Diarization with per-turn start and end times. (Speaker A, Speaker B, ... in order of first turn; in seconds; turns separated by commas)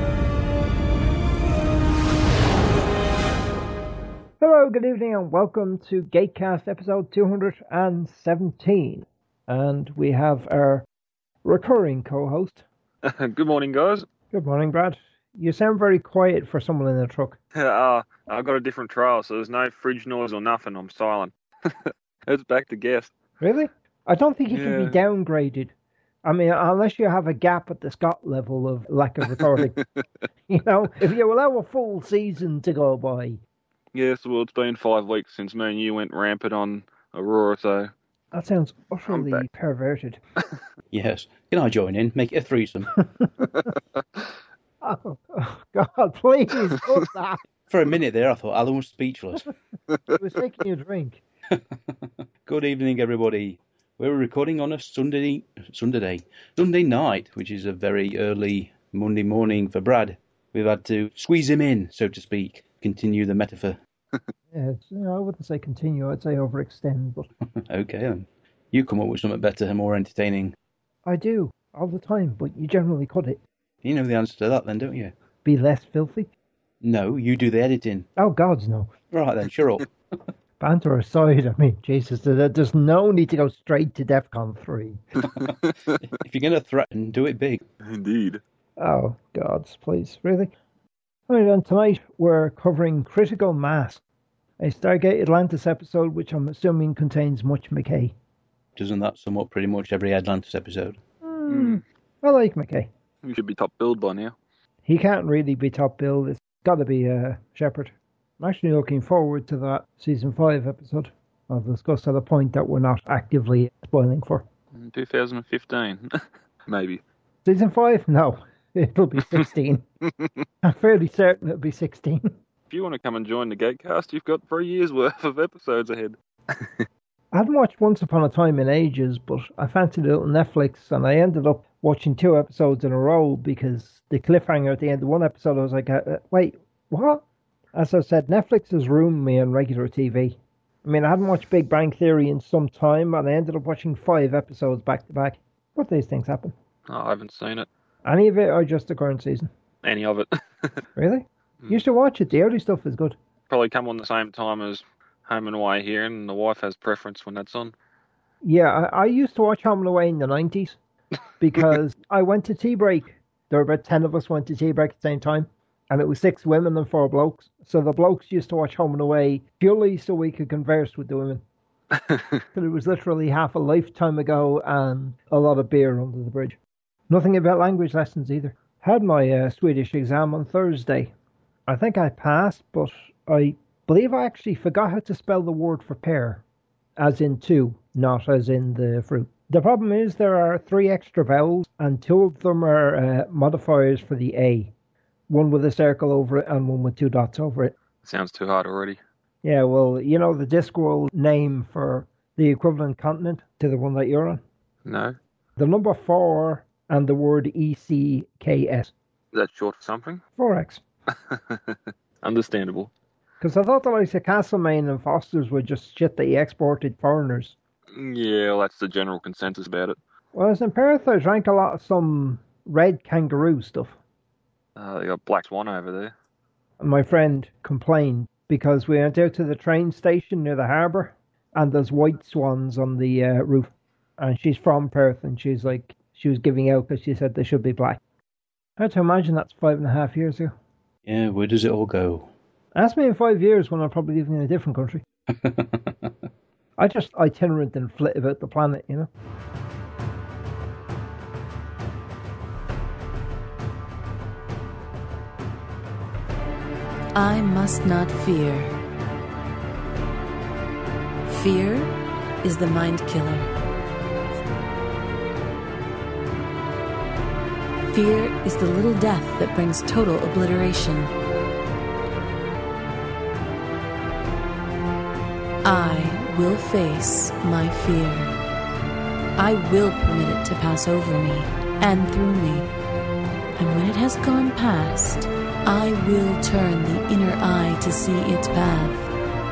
Speaker A: 4.4-10.8, Speaker A: 11.4-12.6, Speaker B: 13.0-14.1, Speaker A: 14.3-17.4, Speaker B: 17.6-23.1, Speaker A: 23.4-25.7, Speaker B: 24.5-25.0, Speaker A: 26.2-29.8, Speaker A: 30.5-33.4, Speaker B: 33.9-37.9, Speaker A: 38.3-40.2, Speaker B: 39.1-39.4, Speaker C: 40.9-42.9, Speaker A: 44.8-47.4, Speaker C: 47.7-49.5, Speaker A: 50.1-51.2, Speaker C: 51.5-63.8, Speaker A: 64.5-67.3, Speaker C: 67.7-70.5, Speaker A: 71.0-73.4, Speaker C: 73.8-75.1, Speaker A: 75.4-76.3, Speaker C: 76.8-78.1, Speaker A: 78.2-78.9, Speaker C: 79.1-79.8, Speaker A: 80.6-85.0, Speaker C: 85.2-85.5, Speaker C: 86.0-87.6, Speaker B: 87.8-88.4, Speaker A: 88.8-90.5, Speaker A: 91.3-94.0, Speaker A: 94.6-98.1, Speaker C: 98.8-101.0, Speaker A: 101.2-102.9, Speaker B: 101.5-101.8, Speaker B: 103.2-104.3, Speaker A: 104.8-114.4, Speaker B: 114.7-117.0, Speaker A: 117.4-119.8, Speaker A: 120.6-122.3, Speaker B: 122.7-126.8, Speaker A: 127.3-137.2, Speaker A: 137.7-146.5, Speaker B: 146.9-147.7, Speaker A: 148.0-149.5, Speaker B: 149.8-150.4, Speaker A: 150.9-153.2, Speaker B: 153.5-157.7, Speaker A: 158.4-160.8, Speaker A: 161.4-171.4, Speaker A: 172.5-176.6, Speaker A: 177.1-181.1, Speaker A: 181.7-186.4, Speaker A: 187.0-194.7, Speaker A: 195.3-197.7, Speaker B: 198.0-199.0, Speaker A: 199.4-204.4, Speaker B: 204.8-205.2, Speaker A: 205.6-208.9, Speaker B: 209.3-210.2, Speaker A: 210.3-210.8, Speaker B: 211.1-212.9, Speaker A: 213.4-217.6, Speaker B: 217.9-220.0, Speaker A: 220.3-223.9, Speaker B: 224.8-226.1, Speaker A: 226.8-238.0, Speaker A: 238.8-240.5, Speaker C: 241.1-242.3, Speaker A: 242.7-245.0, Speaker C: 245.3-246.1, Speaker A: 246.8-249.1, Speaker D: 257.1-258.7, Speaker D: 261.3-263.5, Speaker D: 267.9-271.1, Speaker D: 275.6-278.4, Speaker D: 279.4-282.7, Speaker D: 283.6-289.1